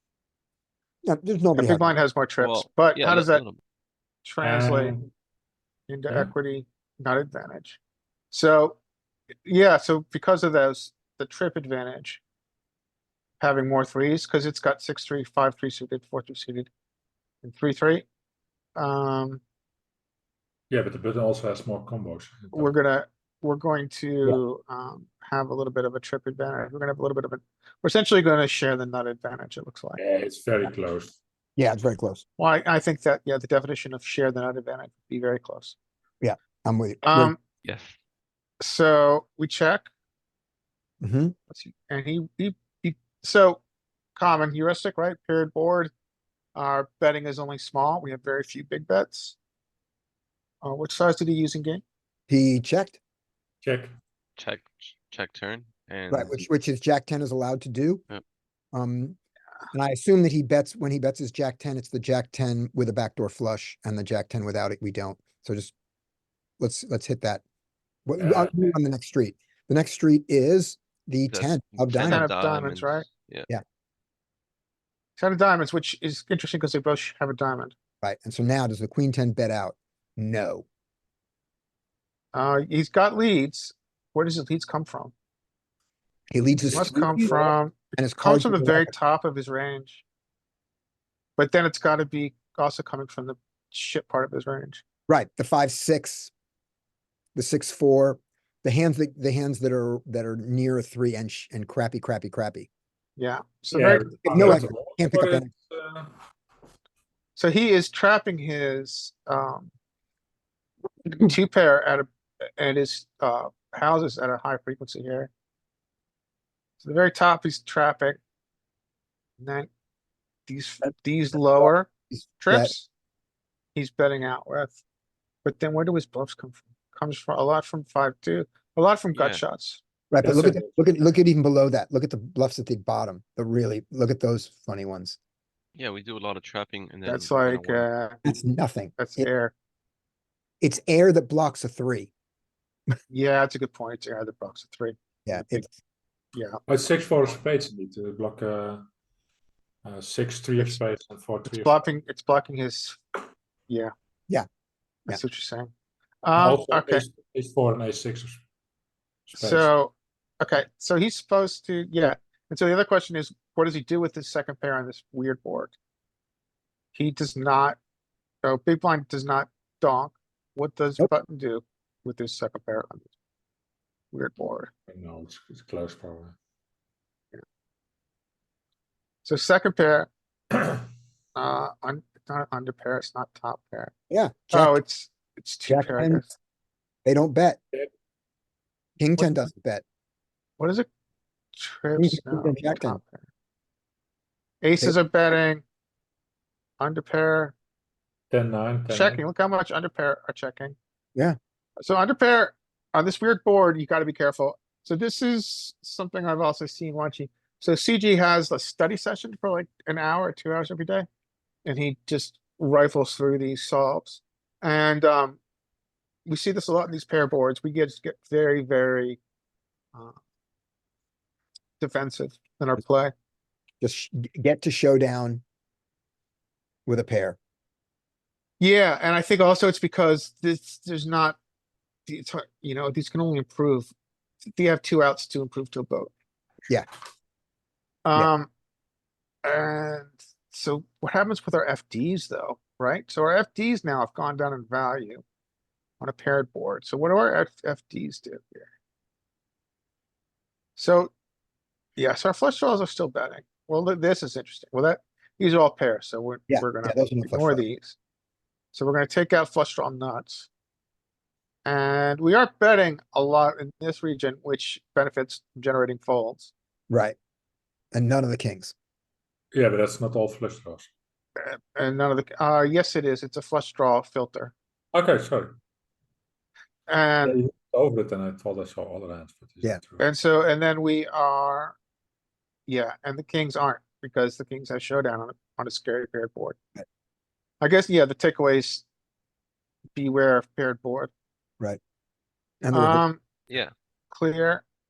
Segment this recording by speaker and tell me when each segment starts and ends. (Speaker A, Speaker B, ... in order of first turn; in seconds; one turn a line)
Speaker A: 1.1-1.9
Speaker B: 1.6-3.4
Speaker C: 2.4-3.6
Speaker B: 4.2-5.0
Speaker D: 4.4-5.1
Speaker B: 5.9-7.8
Speaker B: 8.3-8.8
Speaker B: 9.4-12.2
Speaker B: 13.4-16.7
Speaker B: 17.4-18.1
Speaker B: 18.8-19.4
Speaker D: 20.7-22.7
Speaker B: 22.5-30.0
Speaker D: 30.0-31.2
Speaker A: 31.6-32.2
Speaker B: 32.4-35.8
Speaker A: 36.2-37.3
Speaker B: 37.0-37.4
Speaker C: 37.6-37.9
Speaker B: 38.6-39.9
Speaker A: 41.0-41.3
Speaker B: 41.5-43.6
Speaker B: 44.2-45.9
Speaker B: 46.6-49.4
Speaker B: 50.6-51.8
Speaker A: 52.3-53.0
Speaker D: 53.6-53.9
Speaker C: 54.4-56.5
Speaker A: 56.1-58.0
Speaker A: 58.7-59.2
Speaker A: 59.7-65.7
Speaker A: 66.6-67.4
Speaker A: 68.1-72.3
Speaker D: 68.2-68.8
Speaker C: 71.3-73.5
Speaker B: 72.0-73.1
Speaker B: 75.2-77.8
Speaker A: 78.0-80.7
Speaker B: 82.3-85.1
Speaker A: 86.3-88.9
Speaker B: 86.7-90.0
Speaker B: 91.4-94.8
Speaker A: 95.1-96.3
Speaker A: 97.3-102.7
Speaker B: 103.2-104.6
Speaker D: 103.7-106.1
Speaker A: 104.3-105.5
Speaker B: 107.4-109.7
Speaker B: 111.1-115.3
Speaker B: 116.8-118.2
Speaker B: 119.4-119.7
Speaker B: 120.5-122.9
Speaker A: 121.6-122.7
Speaker B: 123.8-124.8
Speaker B: 125.4-129.8
Speaker C: 129.1-129.4
Speaker A: 130.1-135.2
Speaker D: 130.2-130.9
Speaker C: 135.8-137.9
Speaker B: 137.0-138.2
Speaker A: 138.2-139.3
Speaker B: 139.0-139.5
Speaker A: 140.6-142.1
Speaker B: 143.1-145.7
Speaker A: 145.2-145.7
Speaker B: 146.3-146.6
Speaker D: 146.7-148.8
Speaker D: 149.8-151.9
Speaker B: 151.5-153.9
Speaker B: 155.1-155.7
Speaker B: 156.2-157.1
Speaker D: 156.4-158.4
Speaker D: 159.3-159.7
Speaker B: 159.3-165.7
Speaker B: 166.9-167.8
Speaker B: 168.4-173.1
Speaker B: 174.1-174.7
Speaker D: 174.9-176.4
Speaker B: 179.2-180.1
Speaker B: 181.3-183.9
Speaker A: 184.1-184.8
Speaker B: 184.5-186.3
Speaker A: 185.7-186.2
Speaker A: 187.1-187.6
Speaker A: 189.0-189.8
Speaker B: 190.6-190.9
Speaker B: 191.6-193.2
Speaker A: 192.0-193.0
Speaker B: 194.6-195.6
Speaker B: 196.8-197.5
Speaker D: 198.3-199.2
Speaker B: 198.9-200.8
Speaker B: 201.8-211.1
Speaker B: 211.7-215.4
Speaker B: 216.3-219.2
Speaker B: 221.8-223.1
Speaker A: 223.8-225.4
Speaker A: 226.9-227.4
Speaker B: 228.6-231.4
Speaker B: 232.1-233.9
Speaker B: 234.4-236.1
Speaker B: 238.1-238.5
Speaker B: 239.4-245.2
Speaker B: 246.0-248.7
Speaker B: 250.8-251.1
Speaker B: 252.0-258.0
Speaker A: 256.5-257.6
Speaker B: 258.7-260.5
Speaker B: 261.6-266.5
Speaker A: 266.9-267.2
Speaker A: 267.9-268.7
Speaker D: 269.5-270.9
Speaker B: 271.4-274.5
Speaker D: 274.9-275.6
Speaker B: 276.9-277.5
Speaker D: 277.2-280.0
Speaker B: 280.0-281.8
Speaker B: 282.7-286.6
Speaker B: 287.6-288.8
Speaker B: 289.9-291.1
Speaker A: 292.6-293.0
Speaker B: 292.7-293.2
Speaker B: 294.1-294.6